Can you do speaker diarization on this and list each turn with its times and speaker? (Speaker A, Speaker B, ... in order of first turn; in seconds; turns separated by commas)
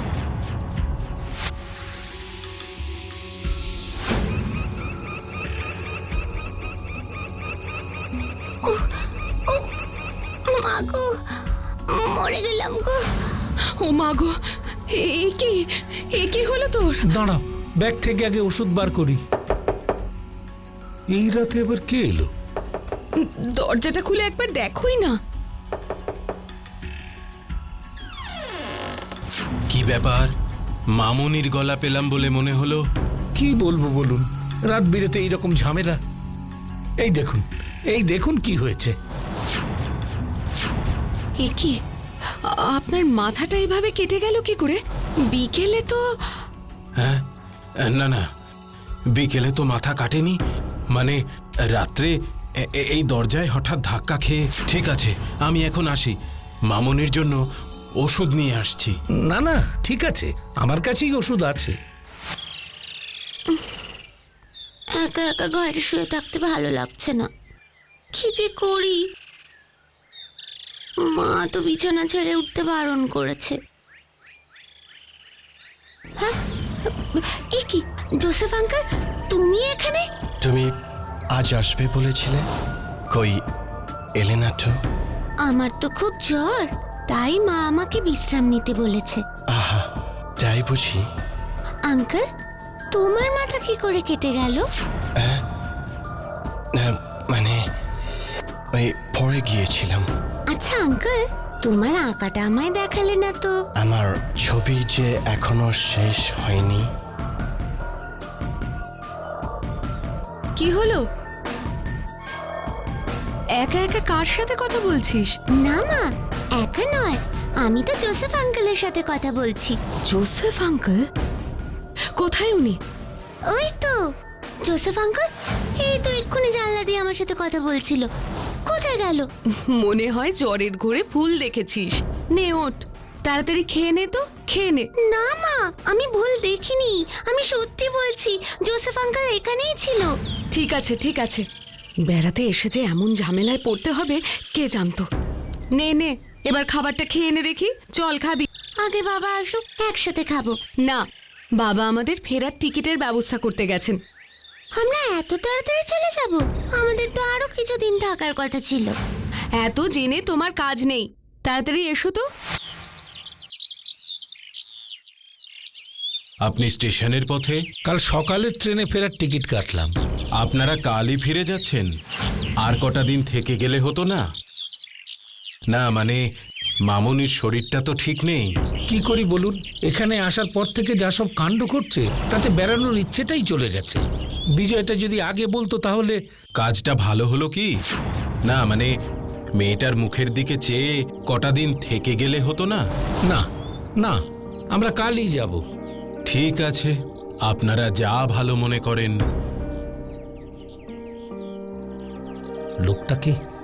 Speaker A: 10.5-11.1, Speaker A: 11.9-13.0, Speaker B: 13.8-14.3, Speaker B: 14.9-17.0, Speaker C: 17.1-19.2, Speaker C: 21.1-22.3, Speaker B: 23.1-25.1, Speaker D: 29.7-30.3, Speaker D: 30.9-32.8, Speaker C: 33.3-36.0, Speaker C: 37.0-38.9, Speaker B: 41.4-41.8, Speaker B: 42.4-46.4, Speaker D: 47.8-48.2, Speaker D: 49.1-50.4, Speaker D: 50.9-51.2, Speaker D: 51.7-52.1, Speaker D: 52.7-56.1, Speaker D: 56.7-57.4, Speaker D: 58.0-58.9, Speaker C: 59.2-61.7, Speaker A: 65.0-67.3, Speaker A: 68.1-69.0, Speaker A: 71.0-73.6, Speaker A: 77.1-80.0, Speaker E: 80.4-80.7, Speaker E: 81.3-82.4, Speaker E: 83.1-83.4, Speaker E: 84.2-84.7, Speaker A: 85.4-89.2, Speaker E: 89.5-89.8, Speaker E: 90.4-91.0, Speaker A: 91.9-92.2, Speaker A: 92.9-94.6, Speaker E: 96.7-97.6, Speaker E: 98.7-100.0, Speaker A: 100.5-103.5, Speaker E: 103.8-106.8, Speaker B: 110.6-111.0, Speaker B: 113.6-115.3, Speaker A: 115.6-116.0, Speaker A: 116.6-119.8, Speaker B: 120.1-121.0, Speaker B: 122.2-122.8, Speaker A: 123.5-124.0, Speaker A: 124.7-125.2, Speaker A: 125.8-128.1, Speaker A: 128.7-129.3, Speaker B: 129.7-134.9, Speaker A: 135.1-140.1, Speaker B: 140.5-141.4, Speaker B: 142.1-145.1, Speaker B: 145.7-148.5, Speaker A: 148.8-150.6, Speaker B: 151.6-154.0, Speaker A: 154.8-158.9, Speaker B: 159.6-162.2, Speaker D: 166.4-167.6, Speaker C: 167.8-169.9, Speaker D: 170.4-171.9, Speaker D: 172.6-174.2, Speaker D: 175.7-176.2, Speaker D: 176.8-178.5, Speaker C: 178.9-184.0, Speaker C: 184.6-186.2, Speaker D: 186.6-187.7, Speaker D: 188.4-188.9, Speaker D: 189.6-192.8, Speaker C: 194.7-195.6, Speaker D: 196.2-196.9, Speaker D: 197.4-199.1, Speaker C: 202.8-203.3